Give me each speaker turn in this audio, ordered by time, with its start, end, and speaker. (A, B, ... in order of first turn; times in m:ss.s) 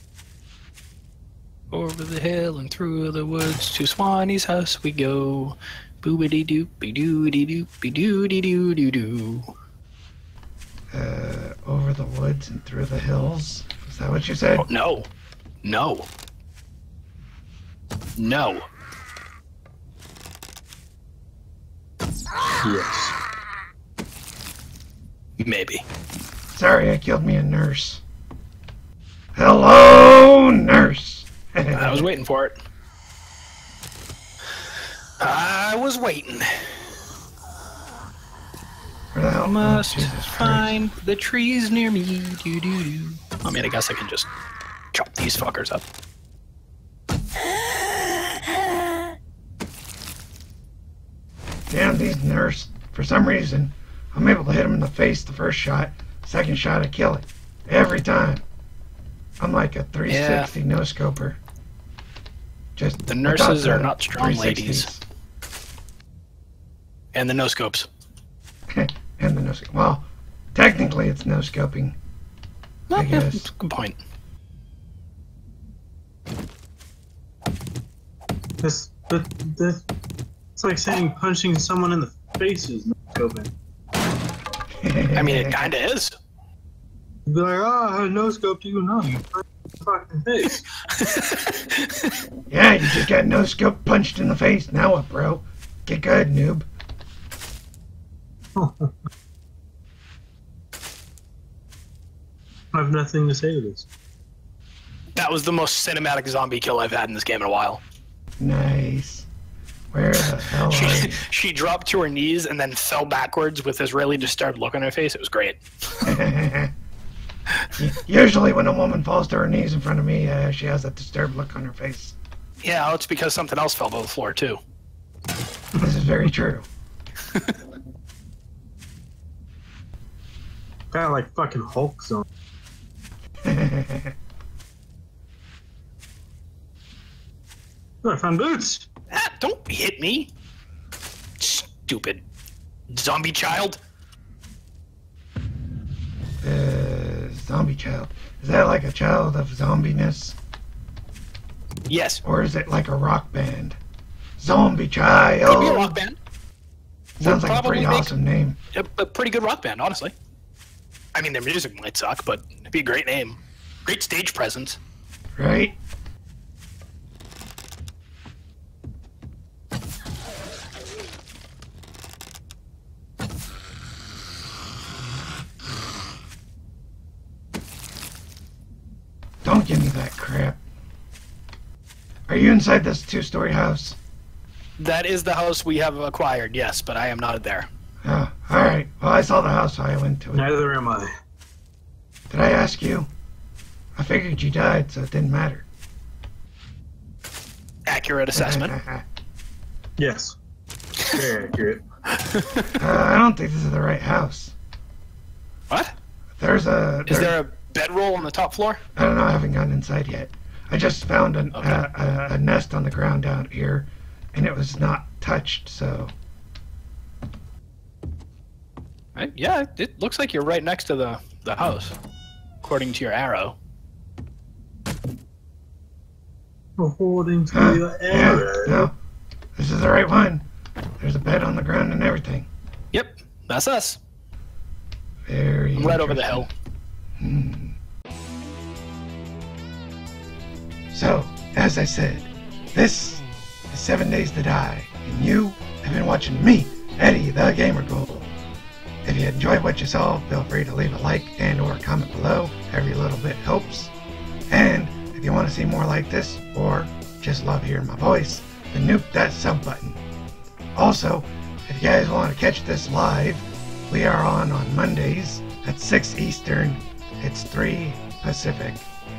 0:01.7-0:09.5 A
0:10.9-0:14.7 B
0:14.6-0:15.1 A
0:15.6-0:16.1 A
0:18.2-0:18.7 A
0:22.6-0:23.2 C
0:25.4-0:25.8 A
0:26.5-0:28.0 B
0:29.4-0:32.1 B
0:31.7-0:32.6 A
0:35.2-0:36.8 A
0:39.1-0:40.7 B
0:39.4-0:44.3 A
0:44.9-0:45.8 A
0:51.7-0:58.4 B
0:59.4-1:01.4 B
1:00.1-1:00.5 A
1:02.8-1:05.0 B
1:03.1-1:04.9 A
1:07.1-1:07.9 A
1:08.7-1:12.0 B
1:12.9-1:14.0 A
1:12.9-1:13.5 B
1:18.6-1:19.8 C
1:20.6-1:23.5 C
1:24.8-1:25.7 B
1:25.2-1:26.1 A
1:27.3-1:30.6 C
1:30.9-1:32.1 A
1:32.5-1:36.7 B
1:38.6-1:38.9 C
1:42.7-1:43.9 C
1:45.2-1:47.8 A
1:48.4-1:49.3 B
1:49.9-1:51.2 B
1:50.7-1:56.2 A
1:56.0-1:56.7 B
1:57.8-2:02.2 B
2:02.6-2:04.6 A
2:05.8-2:06.7 B
2:07.3-2:07.6 A
2:10.9-2:12.3 C
2:13.5-2:14.1 B
2:18.0-2:18.9 C
2:19.1-2:20.3 A
2:21.4-2:22.2 A
2:22.9-2:23.8 A
2:26.4-2:30.4 B
2:31.9-2:32.2 A
2:32.2-2:33.8 B
2:34.4-2:36.0 B
2:35.4-2:36.2 A
2:37.2-2:38.6 B
2:37.2-2:38.1 A
2:38.7-2:40.1 A
2:41.2-2:44.8 A
2:45.4-2:45.8 B
2:59.4-3:00.6 B
3:02.3-3:04.0 B
3:04.8-3:07.7 A
3:08.0-3:10.5 B
3:10.3-3:11.1 C
3:12.3-3:13.1 B
3:14.0-3:15.7 B
3:17.9-3:18.8 A
3:18.4-3:19.0 B
3:20.0-3:20.4 C
3:21.1-3:21.8 C
3:22.2-3:22.7 A
3:22.8-3:24.6 B
3:26.4-3:27.4 B
3:27.1-3:28.8 A
3:29.0-3:36.1 B
3:31.5-3:31.8 A
3:39.2-3:42.0 A
3:42.6-3:43.6 A
3:46.8-3:48.9 C
3:47.5-3:48.9 B
3:49.6-3:50.5 B
3:51.0-3:52.5 B
3:52.9-3:54.0 A
3:55.3-3:56.5 B
3:55.8-3:56.5 A
3:57.2-3:57.8 B
4:00.9-4:08.3 B
4:09.0-4:13.9 B
4:14.5-4:20.0 B
4:20.8-4:28.9 B